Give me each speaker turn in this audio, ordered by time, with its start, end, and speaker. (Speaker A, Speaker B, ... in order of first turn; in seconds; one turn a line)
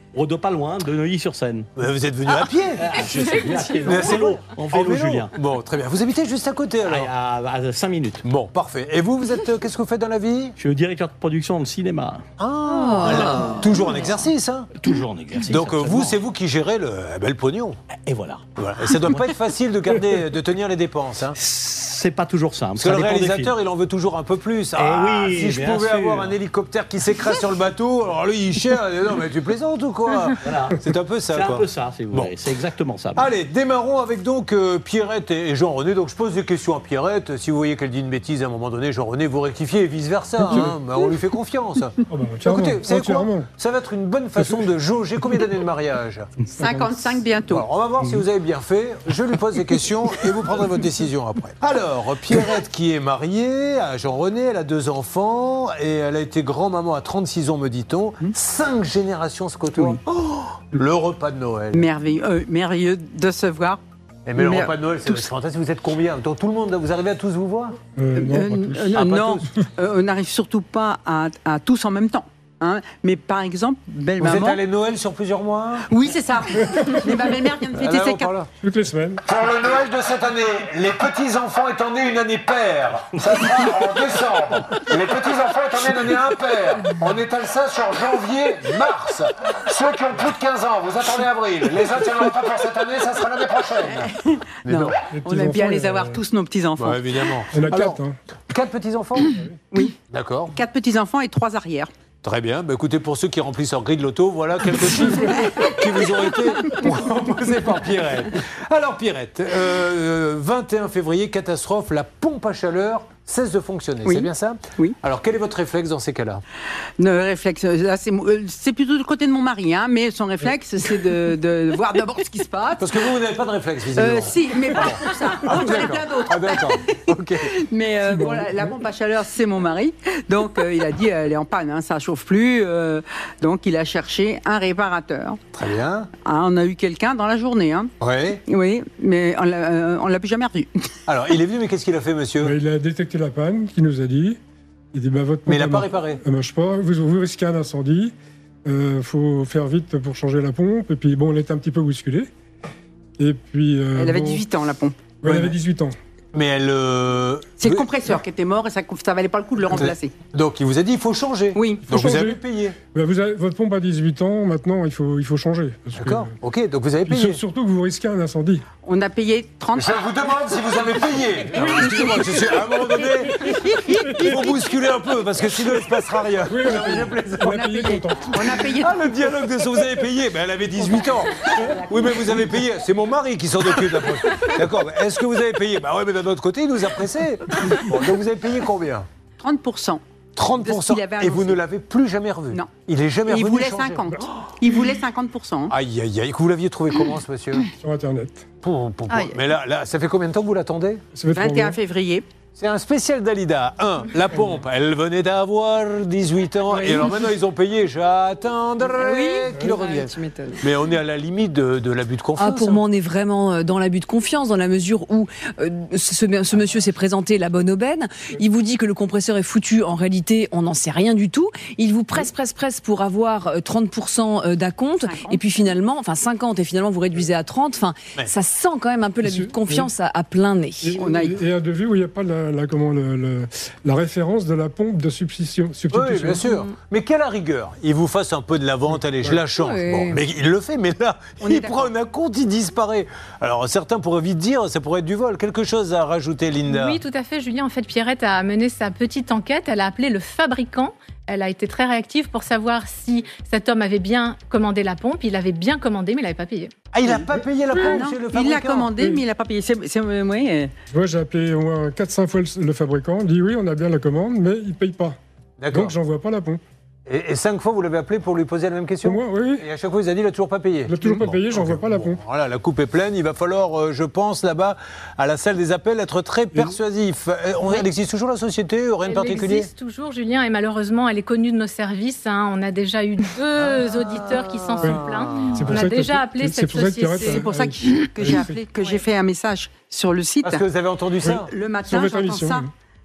Speaker A: 0.1-1.7
Speaker B: 1.8-3.0
Speaker A: 2.8-5.3
Speaker B: 3.7-7.1
Speaker A: 6.8-8.2
Speaker B: 8.2-10.6
Speaker A: 10.6-12.3
Speaker B: 12.4-14.7
Speaker C: 12.7-13.8
Speaker A: 14.8-16.2
Speaker B: 15.4-17.8
Speaker A: 18.1-18.4
Speaker B: 18.6-21.4
Speaker A: 21.4-23.5
Speaker B: 22.8-32.4
Speaker A: 24.8-26.4
Speaker A: 30.4-30.8
Speaker A: 31.3-33.3
Speaker B: 33.1-46.3
Speaker D: 40.4-40.8
Speaker D: 42.1-43.5
Speaker E: 46.5-47.7
Speaker D: 46.6-47.0
Speaker B: 47.5-61.8
Speaker E: 61.7-63.8
Speaker B: 64.3-67.8
Speaker E: 64.4-65.3
Speaker D: 68.0-69.0
Speaker E: 68.2-74.6
Speaker B: 68.9-69.5
Speaker B: 74.2-75.9
Speaker E: 75.9-78.3
Speaker B: 77.8-78.5
Speaker D: 78.6-79.2
Speaker B: 79.3-95.0
Speaker E: 93.8-97.3
Speaker D: 95.1-96.2
Speaker B: 96.8-99.3
Speaker D: 97.5-98.2
Speaker D: 99.3-99.6
Speaker B: 100.1-100.5
Speaker E: 100.5-101.9
Speaker B: 102.2-116.4
Speaker E: 105.6-106.1
Speaker E: 114.0-115.0
Speaker E: 117.0-123.2
Speaker B: 122.8-127.5
Speaker E: 123.9-135.4
Speaker D: 128.2-128.5
Speaker B: 135.6-136.1
Speaker E: 136.2-137.9
Speaker B: 138.0-138.4
Speaker E: 138.5-140.7
Speaker B: 141.1-142.6
Speaker D: 142.4-144.4
Speaker D: 144.9-148.1
Speaker B: 145.5-146.2
Speaker D: 148.7-152.3
Speaker D: 153.2-154.4
Speaker E: 153.9-155.2
Speaker D: 155.2-156.0
Speaker B: 156.3-157.9
Speaker E: 157.6-160.1
Speaker B: 159.7-162.8
Speaker E: 161.6-161.9
Speaker D: 161.9-166.3
Speaker B: 166.0-167.4
Speaker D: 167.1-168.7
Speaker E: 168.8-170.0
Speaker B: 169.7-177.6
Speaker E: 171.5-174.3
Speaker D: 176.4-178.6
Speaker E: 177.4-179.0
Speaker B: 178.8-189.1
Speaker D: 179.8-180.0
Speaker E: 189.4-190.0
Speaker B: 190.4-194.2
Speaker E: 190.6-191.6
Speaker E: 193.3-195.7
Speaker B: 195.7-197.7
Speaker D: 197.8-198.5
Speaker B: 198.6-201.0
Speaker D: 201.1-201.8
Speaker E: 201.3-202.2
Speaker B: 202.6-212.8
Speaker E: 206.7-207.2
Speaker E: 209.0-209.5
Speaker C: 209.5-210.6
Speaker C: 212.4-231.0
Speaker E: 225.0-225.7
Speaker D: 229.2-229.9
Speaker D: 230.8-236.5
Speaker E: 231.0-231.4
Speaker B: 235.9-247.0
Speaker D: 239.0-239.4
Speaker C: 239.6-240.2
Speaker E: 241.4-241.9
Speaker F: 246.7-256.7
Speaker B: 256.9-258.9
Speaker E: 257.8-260.7
Speaker D: 260.9-265.2
Speaker B: 265.6-265.9
Speaker D: 265.7-266.6
Speaker B: 267.1-279.7
Speaker D: 269.0-269.7
Speaker D: 270.9-272.2
Speaker F: 279.0-287.4
Speaker B: 283.6-283.9
Speaker E: 284.1-284.9
Speaker B: 284.8-285.8
Speaker D: 285.5-288.7
Speaker E: 287.1-290.7
Speaker B: 290.4-291.5
Speaker E: 291.2-292.7
Speaker D: 291.9-292.7